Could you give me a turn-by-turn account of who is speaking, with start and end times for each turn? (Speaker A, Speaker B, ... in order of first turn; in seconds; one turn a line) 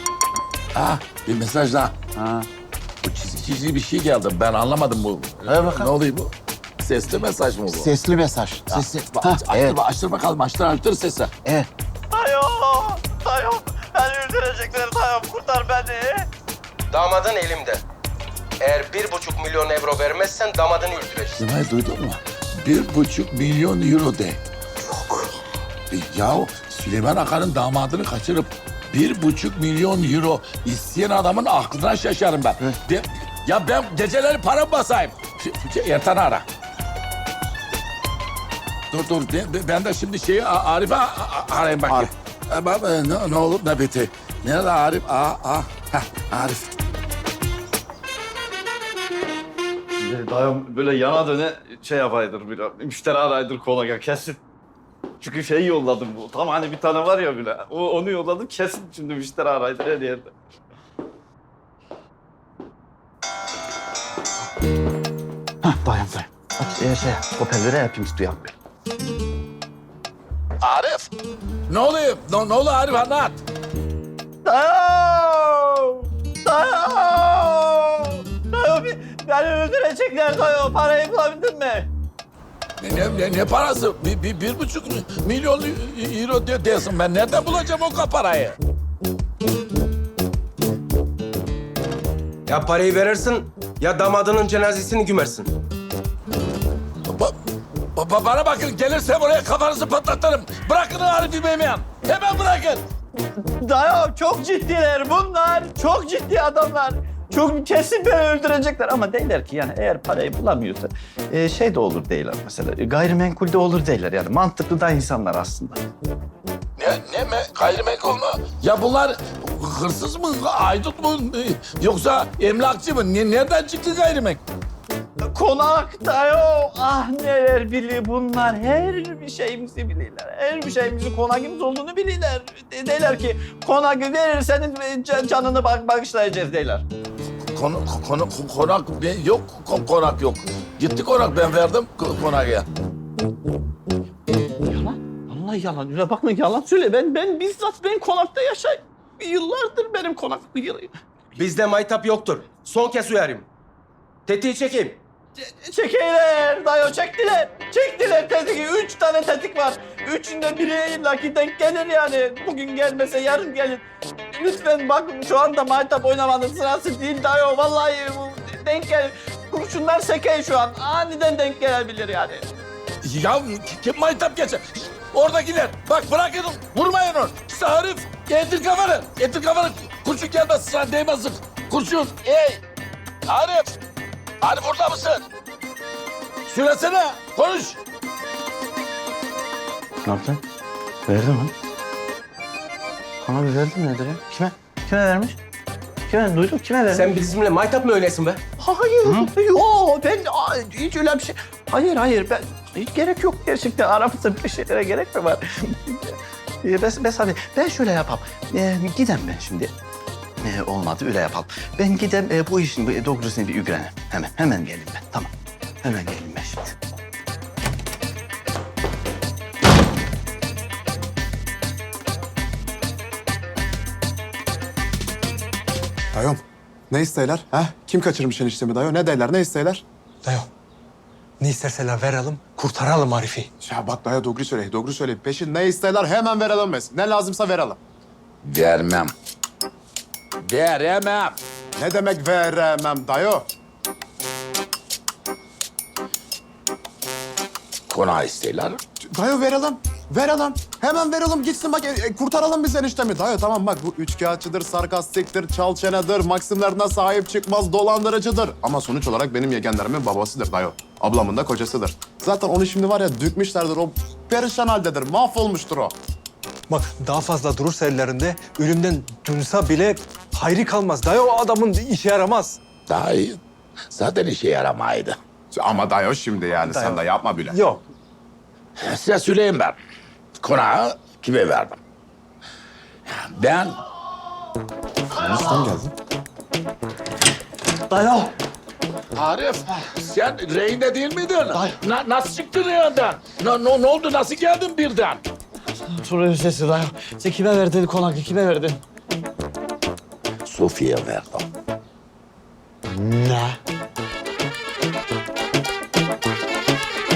Speaker A: 0.7-1.9
Speaker B: 2.2-2.5
Speaker A: 3.0-7.9
Speaker B: 5.5-5.9
Speaker B: 7.7-9.8
Speaker A: 8.7-11.3
Speaker C: 12.1-16.3
Speaker D: 16.9-17.8
Speaker D: 18.6-21.4
Speaker A: 21.4-24.4
Speaker A: 25.9-36.4
Speaker A: 38.9-46.7
Speaker C: 50.0-54.4
Speaker C: 55.2-60.3
Speaker C: 65.6-68.5
Speaker A: 70.6-71.1
Speaker A: 71.7-73.4
Speaker C: 74.4-81.9
Speaker A: 82.8-88.6
Speaker D: 92.5-95.5
Speaker A: 97.0-97.3
Speaker A: 97.9-102.8
Speaker C: 103.6-115.8
Speaker A: 116.8-124.4
Speaker C: 125.3-136.8
Speaker A: 137.5-142.7
Speaker C: 144.6-150.9
Speaker D: 151.3-153.5
Speaker D: 154.3-155.0
Speaker C: 155.4-172.5
Speaker A: 173.0-182.6
Speaker A: 183.2-183.7
Speaker A: 184.4-185.2
Speaker A: 186.4-187.8
Speaker C: 190.0-190.4
Speaker C: 191.1-191.5
Speaker C: 193.2-195.4
Speaker C: 196.1-197.1
Speaker D: 196.9-198.4
Speaker C: 198.6-209.7
Speaker D: 199.0-199.3
Speaker C: 210.4-215.3
Speaker C: 215.8-216.8
Speaker E: 226.1-229.8
Speaker F: 230.2-230.5
Speaker F: 231.4-233.5
Speaker E: 233.6-237.8
Speaker A: 238.4-239.1
Speaker A: 240.4-241.4
Speaker E: 241.8-243.5
Speaker A: 247.9-248.8
Speaker E: 249.0-265.9
Speaker F: 266.7-272.6
Speaker A: 272.9-275.2
Speaker E: 275.5-277.6
Speaker F: 276.6-277.8
Speaker A: 278.8-279.8
Speaker A: 280.4-281.8
Speaker A: 283.1-283.8
Speaker E: 285.1-285.9
Speaker C: 287.9-288.3
Speaker A: 289.1-295.2
Speaker C: 295.9-298.8
Speaker A: 300.4-301.4
Speaker C: 302.9-303.5